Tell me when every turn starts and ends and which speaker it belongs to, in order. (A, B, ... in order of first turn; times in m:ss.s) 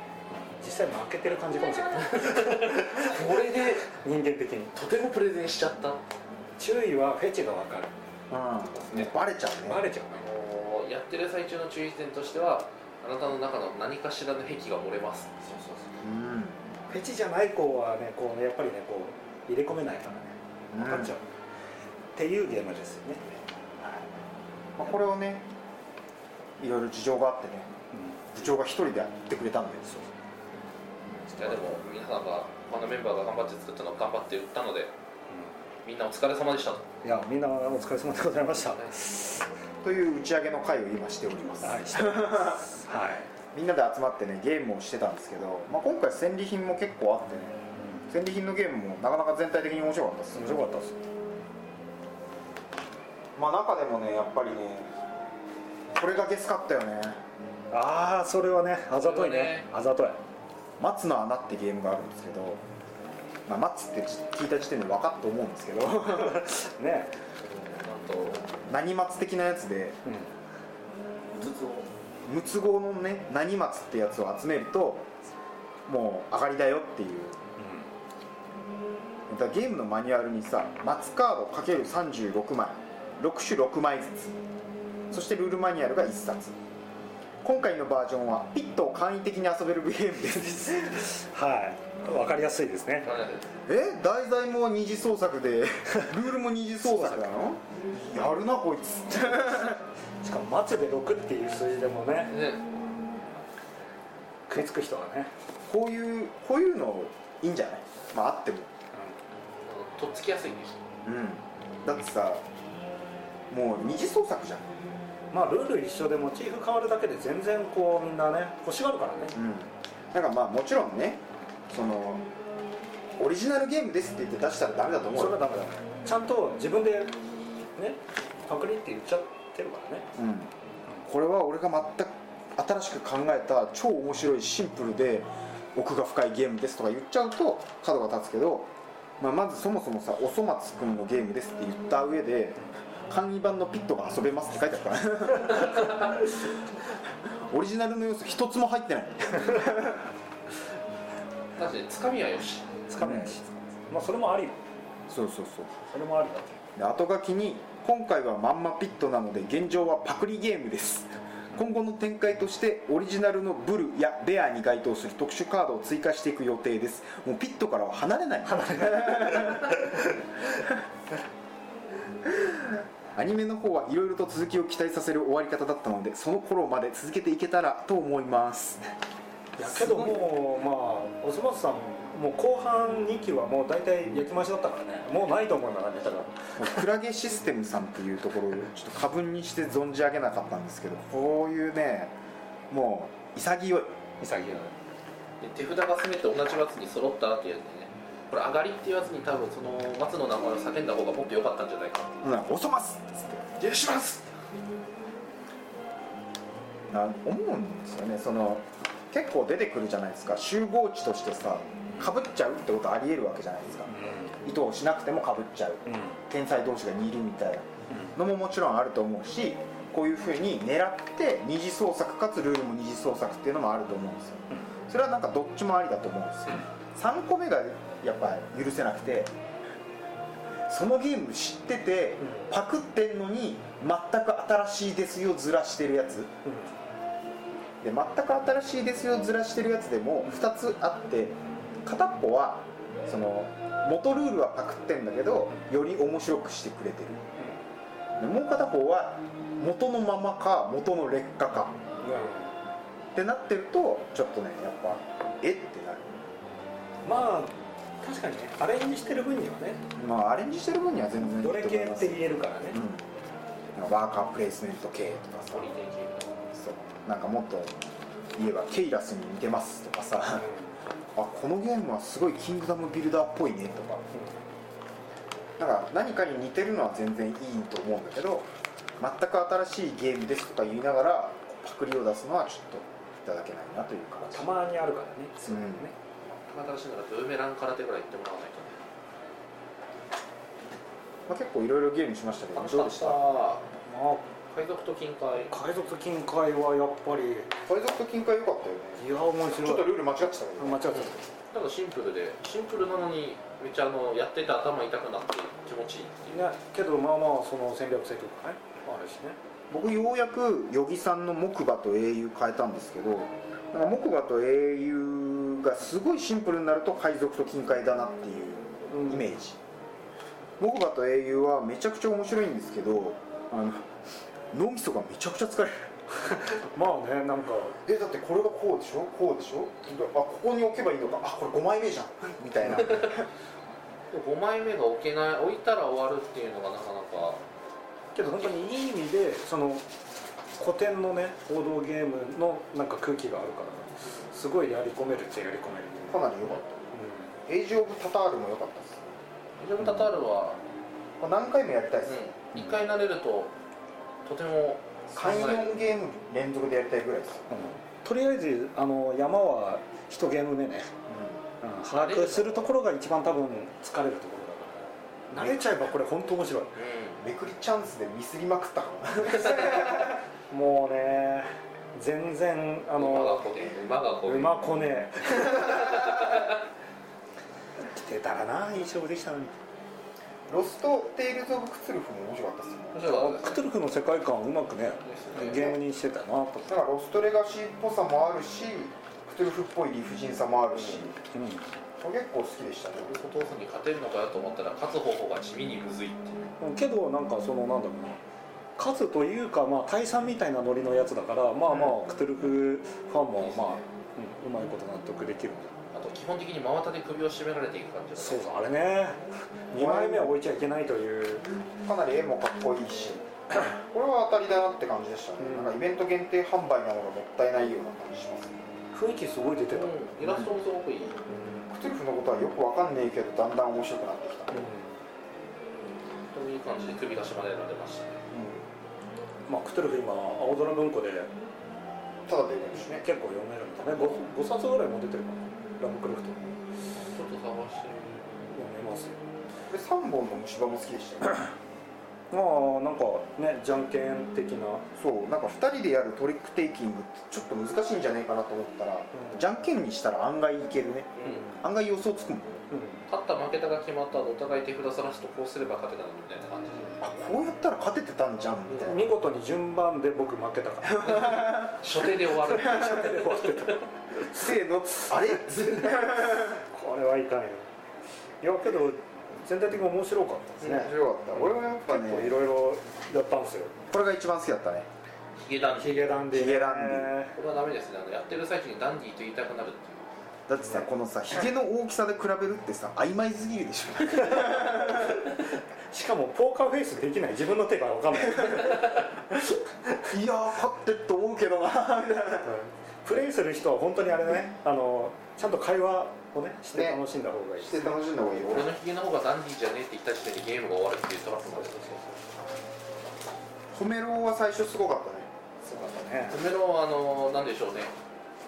0:00.3-0:04.8 A
0:02.2-0:03.9 B
0:04.7-0:06.0 B
0:06.6-0:07.9 A
0:08.3-0:09.9 C
0:08.7-0:09.2 B
0:09.6-0:10.3 A
0:10.1-0:15.5 B
0:15.5-0:15.8 A
0:16.0-0:16.6 C
0:16.9-0:21.2 A
0:20.7-0:21.2 C
0:22.2-0:23.2 A
0:24.8-0:25.5 C
0:26.6-0:27.7 C
0:27.9-0:28.4 A
0:28.3-0:29.9 C
0:31.1-0:31.8 A
0:31.4-0:34.9 B
0:35.8-0:36.9 B
0:37.0-0:39.5 A
0:38.6-0:38.9 B
0:39.8-0:42.6 C
0:41.6-0:43.3 A
0:43.5-0:50.7 C
0:47.8-0:48.0 A
0:50.3-0:51.0 A
0:53.4-0:55.0 C
0:56.0-0:57.2 C
0:57.7-1:00.2 A
0:59.0-0:59.7 B
1:00.8-1:02.6 C
1:03.5-1:06.5 C
1:06.1-1:07.2 A
1:07.7-1:08.4 B
1:08.7-1:10.0 C
1:10.0-1:10.3 A
1:11.3-1:11.9 B
1:12.2-1:15.1 C
1:15.9-1:17.4 C
1:17.6-1:17.9 A
1:19.3-1:24.4 C
1:25.1-1:26.6 C
1:27.4-1:31.0 C
1:30.9-1:33.1 A
1:33.0-1:33.5 B
1:33.7-1:39.8 C
1:36.8-1:37.4 A
1:40.2-1:42.5 A
1:42.3-1:42.6 B
1:44.5-1:45.3 A
1:45.7-1:48.7 C
1:49.7-1:50.8 B
1:51.0-1:52.4 C
1:53.5-1:54.8 C
1:55.3-1:59.4 A
1:59.3-2:02.2 C
2:03.2-2:05.7 C
2:05.2-2:07.1 A
2:07.8-2:10.1 A
2:10.2-2:10.5 C
2:11.0-2:26.4 C
2:27.2-2:30.1 C
2:31.6-2:32.8 B
2:32.9-2:34.6 A
2:33.0-2:33.4 C
2:35.1-2:35.7 C
2:35.9-2:36.6 A
2:36.8-2:49.9 C
2:48.5-2:50.3 A
2:52.4-2:58.8 C
2:59.6-3:06.8 A
2:59.6-3:00.3 C
3:06.6-3:12.2 C
3:12.7-3:13.9 C
3:14.2-3:14.7 A
3:15.4-3:22.3 B
3:22.2-3:23.5 C
3:23.6-3:24.3 B
3:26.9-3:49.3 C
3:33.9-3:34.4 A
3:35.9-3:36.2 A
3:37.9-3:38.2 A
3:50.7-3:56.3 C
3:52.2-3:52.5 A
3:56.4-3:56.8 A
3:57.8-4:07.2 C
4:08.2-4:11.8 C
4:12.0-4:12.5 A
4:13.2-4:16.2 C
4:17.0-4:19.8 A
4:20.0-4:23.1 C
4:21.4-4:22.8 A
4:23.8-4:25.7 C
4:25.5-4:26.5 B
4:26.5-4:30.5 C
4:30.4-4:30.7 A
4:31.2-4:34.0 C
4:34.1-4:34.4 A
4:35.6-4:38.5 C
4:39.0-4:44.5 C
4:44.2-4:45.9 A
4:45.4-4:45.9 C
4:46.4-4:48.8 B
4:51.3-4:53.2 C
4:52.6-4:53.6 B
4:53.8-4:54.3 A
4:54.5-4:55.5 B
4:55.5-4:57.5 A
4:57.7-5:00.9 C
4:59.0-5:01.3 A
5:00.9-5:06.5 B
5:06.3-5:09.4 A
5:09.7-5:19.6 C
5:18.8-5:19.4 A
5:20.6-5:23.9 C
5:24.5-5:25.9 C
5:26.3-5:27.8 A
5:27.8-5:33.3 C
5:34.1-5:37.4 B
5:38.2-5:39.8 A
5:38.2-5:38.6 B
5:40.6-5:46.3 A
5:46.1-5:46.7 C
5:46.5-5:46.7 B
5:46.9-5:47.3 A
5:47.5-5:49.2 C
5:49.6-5:50.6 B
5:51.2-5:52.3 C
5:52.0-5:53.5 B
5:52.6-5:52.8 A
5:54.2-5:55.8 B
5:55.1-5:57.5 C
5:57.5-6:00.9 A
6:01.1-6:01.4 C
6:01.6-6:06.8 A
6:01.8-6:02.8 B
6:05.3-6:06.0 C
6:06.8-6:07.2 B
6:07.2-6:10.2 C
6:10.5-6:13.6 A
6:13.0-6:14.7 B
6:14.2-6:16.0 A
6:15.5-6:16.5 B
6:17.8-6:19.5 A
6:20.5-6:23.0 C
6:22.9-6:23.7 B
6:23.0-6:26.8 A
6:25.0-6:25.7 B
6:25.3-6:25.8 C
6:26.7-6:31.2 C
6:31.3-6:31.7 A
6:32.0-6:33.2 C
6:33.0-6:36.6 B
6:36.6-6:38.2 A
6:38.8-6:45.7 A
6:41.7-6:42.1 C
6:43.4-6:43.8 B
6:45.9-6:48.6 B
6:48.2-6:51.5 A
6:49.7-6:50.4 C
6:51.8-6:58.6 C
6:55.4-6:55.8 A
6:58.9-7:00.4 A
6:59.7-7:01.2 B
7:01.3-7:01.7 A
7:01.7-7:04.7 C
7:04.5-7:05.0 A
7:06.3-7:08.2 B
7:08.3-7:08.7 C
7:09.5-7:11.3 A
7:12.3-7:13.1 C
7:12.8-7:16.5 A
7:17.0-7:18.6 B
7:18.5-7:19.2 A
7:19.7-7:21.5 C
7:22.3-7:24.9 A
7:25.0-7:32.7 C
7:29.1-7:29.4 A
7:31.2-7:31.5 B
7:32.7-7:33.0 A
7:33.1-7:37.0 B
7:37.0-7:39.1 C
7:38.7-7:41.6 A
7:40.8-7:41.8 C
7:41.0-7:43.6 B
7:42.3-7:44.6 A
7:44.2-7:46.6 C
7:46.1-7:47.7 A
7:48.4-7:53.7 A
7:50.6-7:52.4 C
7:53.9-7:54.9 C
7:55.4-7:56.3 B
7:55.7-7:57.4 A
7:56.3-7:57.2 C
7:57.4-8:00.1 B
8:00.5-8:05.2 C
8:04.3-8:10.0 A
8:10.1-8:12.6 C
8:12.4-8:18.0 A
8:16.7-8:17.0 C
8:17.6-8:18.8 C
8:18.4-8:21.8 B
8:21.4-8:22.3 A
8:23.7-8:25.3 C
8:25.6-8:26.4 A
8:26.3-8:27.9 B